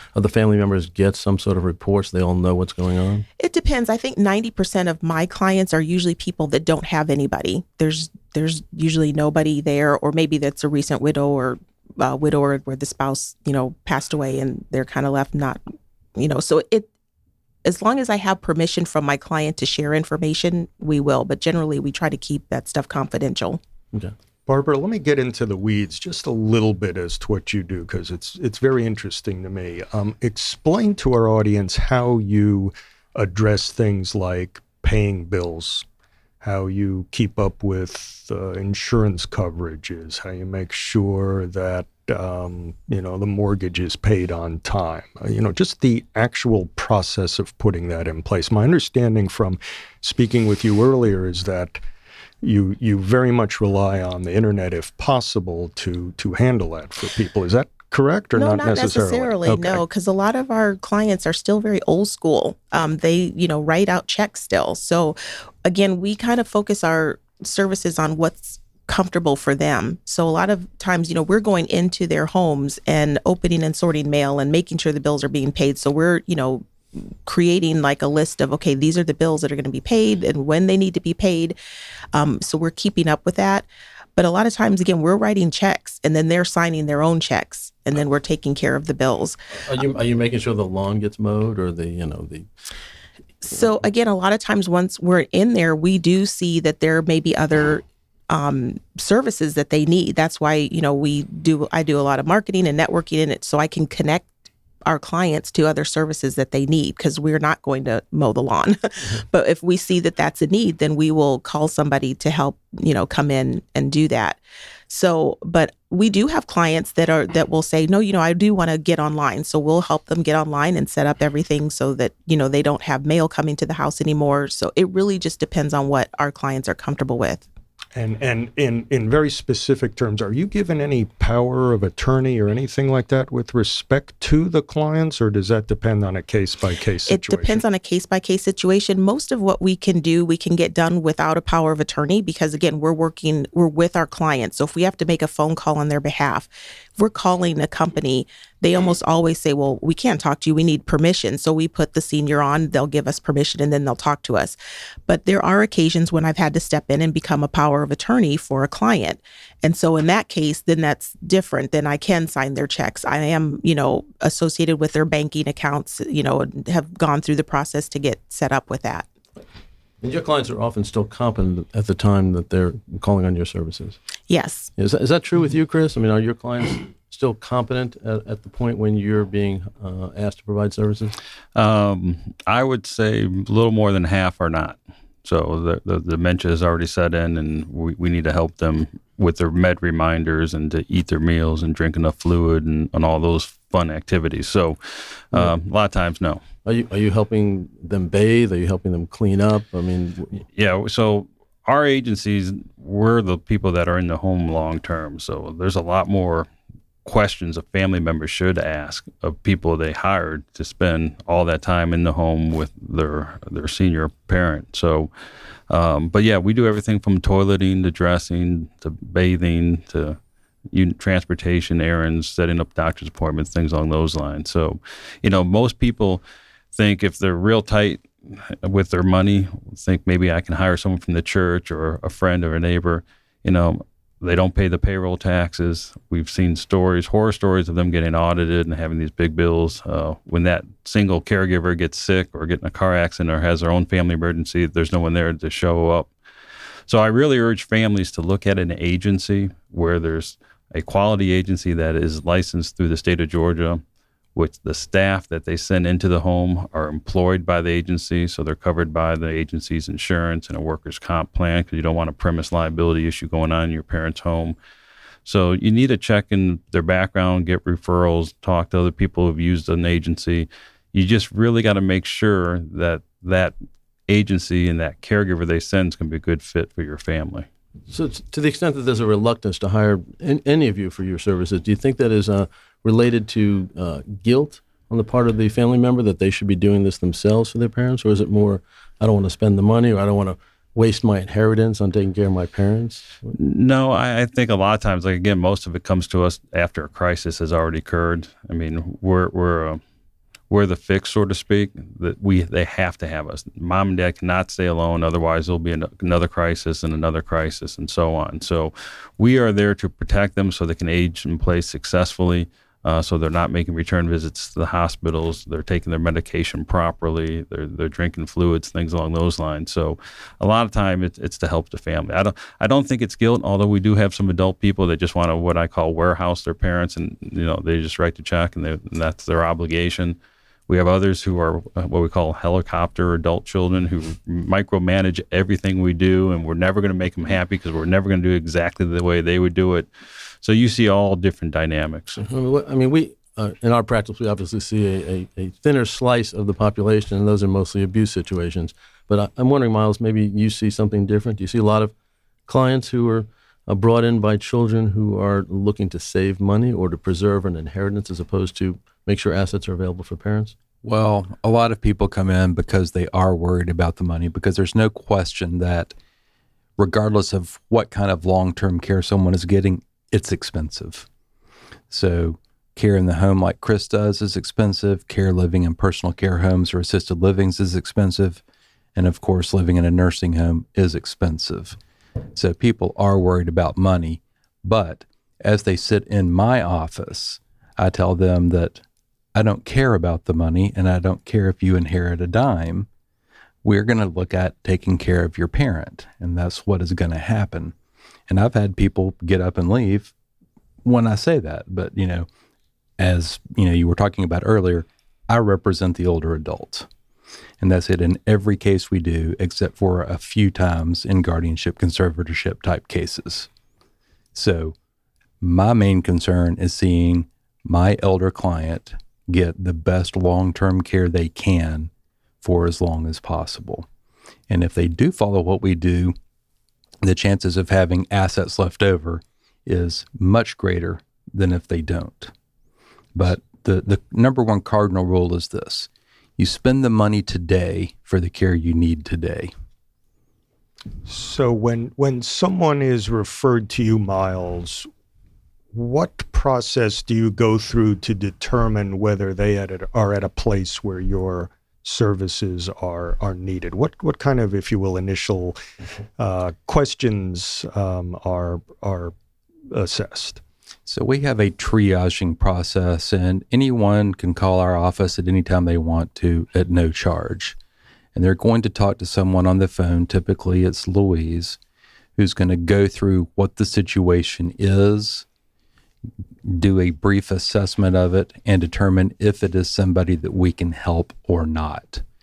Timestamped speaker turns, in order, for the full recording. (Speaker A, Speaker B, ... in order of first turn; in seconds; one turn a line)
Speaker A: 0.1-3.2
Speaker B: 3.4-15.6
Speaker B: 16.2-16.9
Speaker B: 17.6-23.6
Speaker C: 24.5-35.9
Speaker C: 36.4-51.8
Speaker C: 52.4-59.8
Speaker B: 58.4-81.6
Speaker B: 82.1-89.4
Speaker A: 89.6-92.5
Speaker B: 93.4-104.3
Speaker B: 104.9-127.5
Speaker C: 128.0-137.6
Speaker B: 137.1-154.6
Speaker B: 155.1-169.1
Speaker A: 170.0-174.0
Speaker B: 174.3-174.7
Speaker A: 174.8-181.2
Speaker D: 181.6-196.4
Speaker A: 196.7-200.4
Speaker D: 200.6-206.5
Speaker D: 207.1-215.1
Speaker D: 215.7-220.2
Speaker D: 220.7-226.2
Speaker D: 226.7-246.1
Speaker D: 246.9-253.8
Speaker D: 254.3-264.6
Speaker D: 265.2-273.5
Speaker D: 274.1-277.5
Speaker A: 277.9-293.3
Speaker D: 293.4-299.8
Speaker D: 300.5-330.2
Speaker D: 330.7-339.9
Speaker D: 340.4-342.2
Speaker A: 342.2-351.9
Speaker A: 352.5-360.6
Speaker E: 360.8-365.9
Speaker E: 366.8-371.1
Speaker E: 371.9-378.4
Speaker E: 378.9-381.8
Speaker E: 382.4-388.8
Speaker E: 389.4-392.9
Speaker E: 393.6-397.7
Speaker E: 398.3-400.1
Speaker E: 400.8-402.3
Speaker E: 403.0-406.9
Speaker E: 407.6-413.5
Speaker E: 414.3-414.8
Speaker E: 415.4-421.9
Speaker E: 422.4-423.9
Speaker E: 424.5-426.2
Speaker E: 427.0-432.3
Speaker E: 433.1-439.5
Speaker C: 441.1-444.9
Speaker C: 445.7-455.6
Speaker C: 456.2-459.1
Speaker C: 459.7-460.4
Speaker E: 460.9-467.6
Speaker E: 468.1-471.6
Speaker E: 472.2-475.2
Speaker E: 476.4-482.0